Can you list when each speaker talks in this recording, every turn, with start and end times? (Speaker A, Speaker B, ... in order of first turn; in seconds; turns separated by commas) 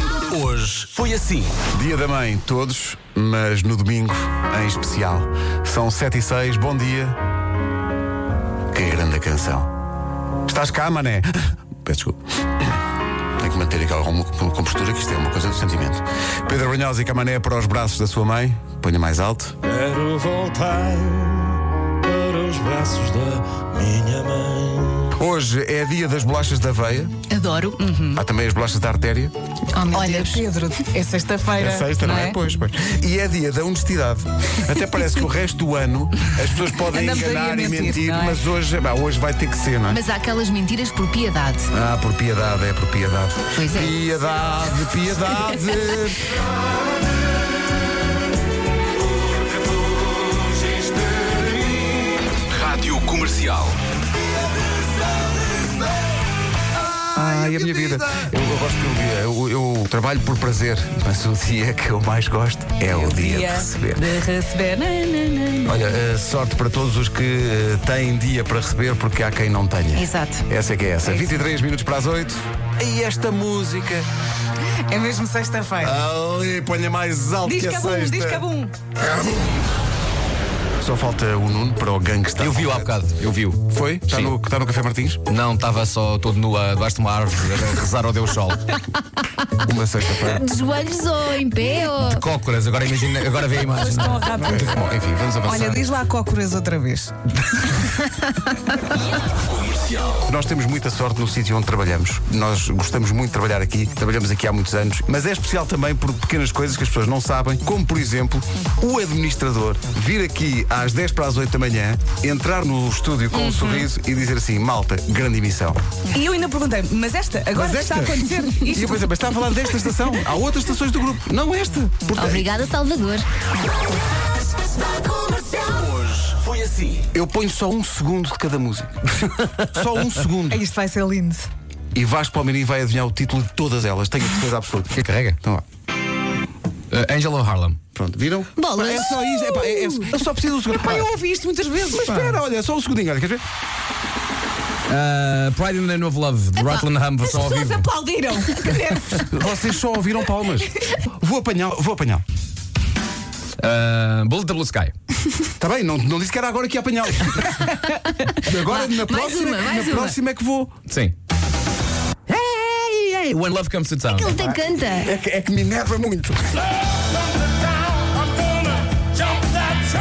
Speaker A: 0.3-1.5, Speaker B: 1.7-7.2, Speaker B: 8.7-9.7, Speaker B: 10.5-11.3, Speaker B: 11.8-12.2, Speaker B: 13.4-19.6, Speaker C: 19.8-21.1, Speaker C: 22.2-24.9, Speaker B: 25.1-27.1, Speaker D: 27.3-27.9, Speaker E: 27.8-28.2, Speaker B: 28.1-29.3, Speaker D: 29.7-30.4, Speaker E: 29.8-32.4, Speaker B: 31.6-40.0, Speaker E: 36.9-38.5, Speaker D: 39.9-41.7, Speaker B: 41.7-46.3, Speaker D: 43.5-43.9, Speaker A: 52.5-53.8, Speaker B: 57.1-64.2, Speaker E: 63.4-65.7, Speaker B: 65.6-74.1, Speaker E: 69.9-70.4, Speaker E: 74.9-76.0, Speaker B: 75.8-78.5, Speaker E: 77.4-78.7, Speaker B: 80.8-82.9, Speaker F: 82.4-84.3, Speaker B: 83.7-85.2, Speaker F: 85.3-88.8, Speaker B: 89.6-90.5, Speaker D: 90.3-92.2, Speaker F: 92.0-94.3, Speaker E: 93.7-94.8, Speaker B: 94.3-95.8, Speaker E: 95.4-97.1, Speaker B: 100.2-115.8, Speaker E: 113.3-113.8, Speaker E: 116.1-119.0, Speaker B: 117.5-122.5, Speaker D: 122.2-123.2, Speaker A: 125.3-126.9, Speaker B: 127.1-130.7, Speaker E: 130.5-131.5, Speaker B: 131.9-135.6, Speaker F: 134.9-135.4, Speaker F: 136.9-137.8, Speaker B: 137.9-141.1, Speaker D: 138.6-138.9, Speaker E: 139.3-142.4, Speaker B: 141.9-143.4, Speaker F: 144.9-147.9, Speaker E: 147.3-149.4, Speaker B: 149.2-152.2, Speaker F: 153.6-154.9, Speaker B: 155.6-157.6, Speaker B: 158.4-160.7, Speaker D: 158.5-160.2, Speaker F: 160.9-161.1, Speaker F: 162.3-164.3, Speaker D: 164.1-165.1, Speaker B: 164.3-166.6